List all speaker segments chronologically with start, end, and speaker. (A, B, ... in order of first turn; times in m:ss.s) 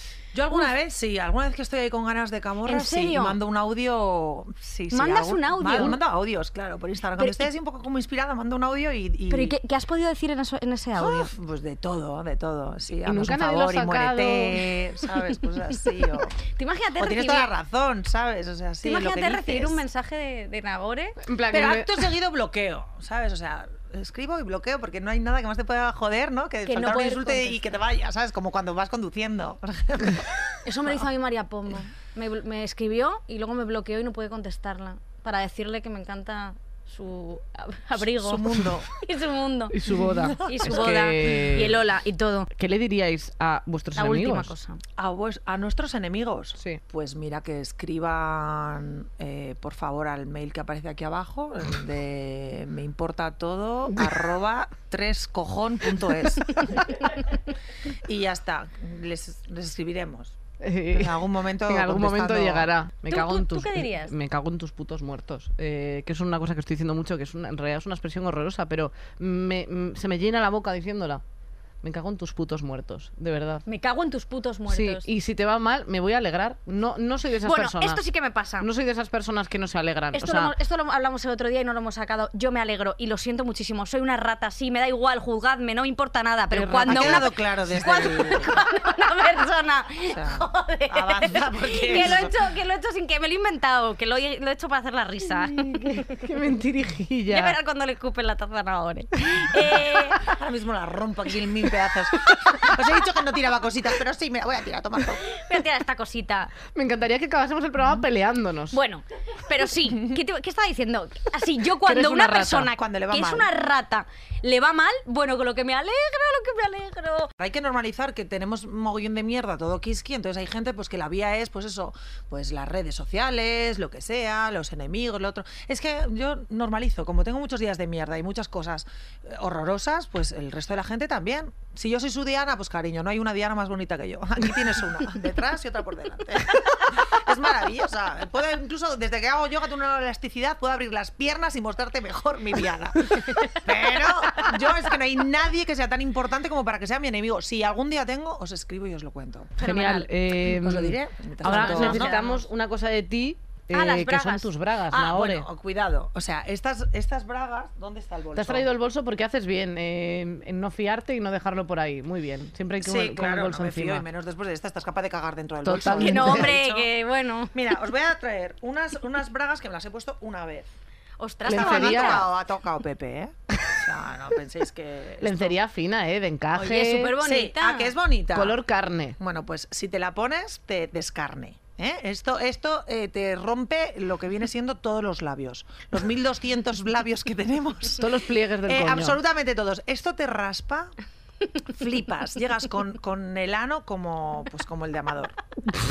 0:00.3-0:09.6 A
0:02.6-0:03.4 B
0:04.9-0:06.0 B
0:07.2-0:07.5 B
0:09.3-0:11.3 B
0:11.0-0:16.4 A
0:13.0-0:14.6 C
0:16.6-0:17.5 B
0:17.0-0:19.8 A
0:18.8-0:21.2 B
0:21.2-0:21.9 C
0:21.5-0:31.0 A
0:26.6-0:27.6 B
0:30.6-0:39.7 B
0:37.9-0:38.9 A
0:39.7-0:41.8 C
0:40.1-0:41.1 A
0:40.4-0:42.5 B
0:42.5-0:44.5 C
0:44.0-0:44.8 B
0:45.0-0:57.1 A
0:57.9-1:00.4 A
1:00.6-1:11.2 C
1:00.9-1:02.7 A
1:03.1-1:04.1 B
1:11.8-1:13.6 C
1:13.6-1:15.1 B
1:14.7-1:18.0 C
1:17.4-1:18.7 B
1:18.6-1:20.5 C
1:20.1-1:36.3 B
1:26.5-1:27.2 C
1:26.8-1:28.6 A
1:30.1-1:32.3 A
1:35.4-1:37.6 C
1:37.3-1:40.3 B
1:40.2-1:45.3 A
1:45.2-1:46.5 B
1:46.7-1:48.8 C
1:48.7-1:57.3 B
1:51.8-1:52.7 C
1:52.7-1:53.5 A
1:57.4-2:29.6 A
2:29.6-2:30.1 B
2:29.6-2:35.4 C
2:30.4-2:32.2 A
2:31.4-2:32.4 B
2:33.7-2:34.5 B
2:34.9-2:38.7 A
2:38.3-2:44.0 C
2:42.8-2:46.9 A
2:45.6-2:46.5 C
2:45.9-2:47.5 B
2:47.5-2:50.7 A
2:51.2-2:52.3 B
2:51.4-2:52.2 C
2:51.4-2:55.6 A
2:55.2-2:57.1 C
2:56.6-2:57.9 B
2:57.2-2:58.6 A
2:58.3-2:59.2 C
2:59.2-3:08.0 A
3:08.0-3:09.2 C
3:08.6-3:10.9 A
3:11.6-3:15.4 A